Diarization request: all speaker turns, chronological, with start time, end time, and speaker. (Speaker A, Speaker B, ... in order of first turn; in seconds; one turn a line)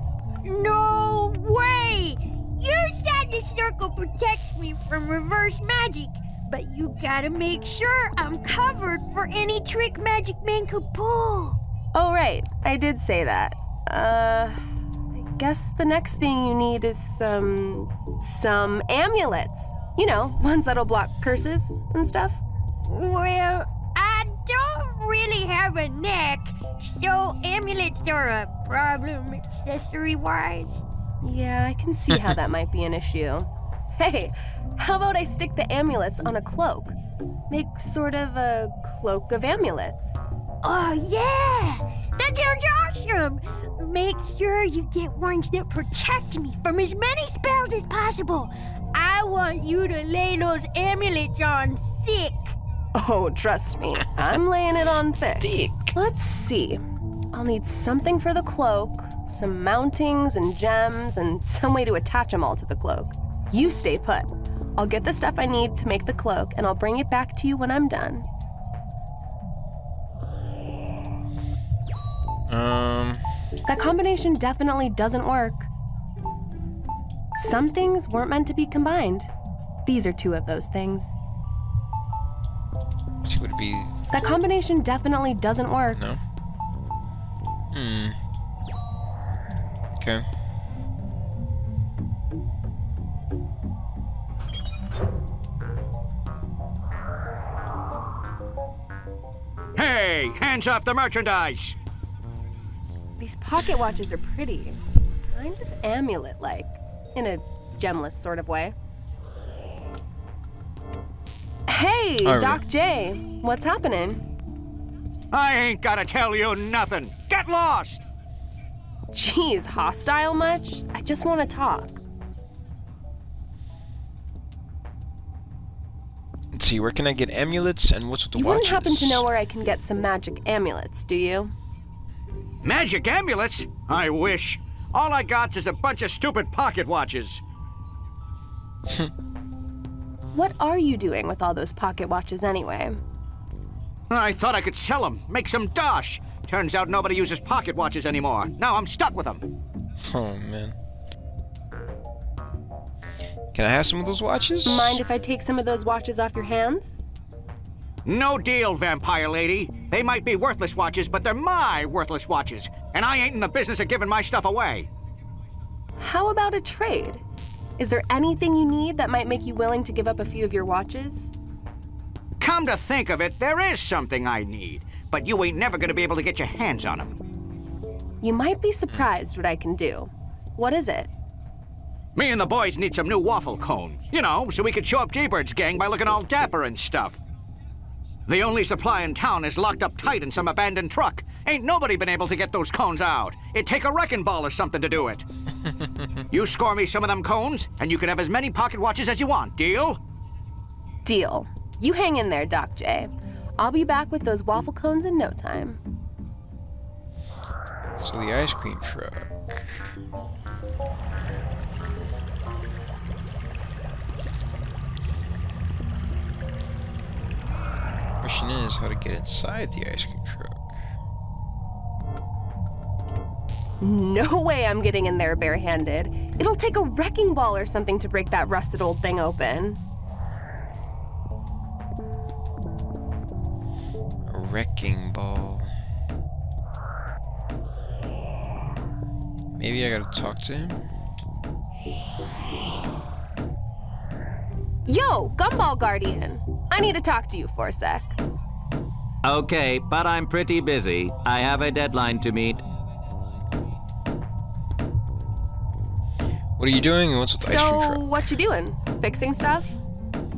Speaker A: 0.4-11.6
Speaker B: 11.9-14.6
Speaker B: 15.1-22.4
Speaker A: 22.9-30.8
Speaker B: 31.2-37.0
Speaker B: 37.5-40.2
Speaker A: 40.6-52.5
Speaker B: 52.9-56.8
Speaker C: 55.4-55.9
Speaker B: 57.3-68.2
Speaker C: 72.5-73.2
Speaker B: 73.7-75.7
Speaker B: 77.4-79.3
Speaker B: 79.8-81.1
Speaker C: 83.2-83.9
Speaker B: 84.1-86.0
Speaker C: 85.9-86.2
Speaker C: 87.7-88.2
Speaker C: 89.9-90.2
Speaker D: 99.8-101.8
Speaker B: 103.2-108.7
Speaker B: 111.7-114.2
Speaker C: 112.2-112.6
Speaker D: 115.3-118.0
Speaker B: 119.1-122.0
Speaker C: 126.5-129.3
Speaker B: 128.3-131.5
Speaker D: 132.6-137.4
Speaker B: 140.3-142.9
Speaker D: 144.1-149.5
Speaker C: 150.1-150.8
Speaker C: 153.5-155.0
Speaker B: 154.6-157.0
Speaker D: 158.1-164.9
Speaker B: 166.0-167.2
Speaker B: 167.8-171.3
Speaker D: 172.4-177.2
Speaker B: 178.2-181.1
Speaker D: 182.2-187.2
Speaker D: 188.3-195.2
Speaker D: 196.3-200.0
Speaker B: 201.0-205.8
Speaker C: 208.0-209.9
Speaker C: 218.2-220.7
Speaker B: 223.8-229.8
Speaker C: 234.3-235.7
Speaker C: 239.6-240.8
Speaker B: 244.9-248.2
Speaker E: 249.2-252.6
Speaker C: 256.6-258.2
Speaker B: 257.4-259.7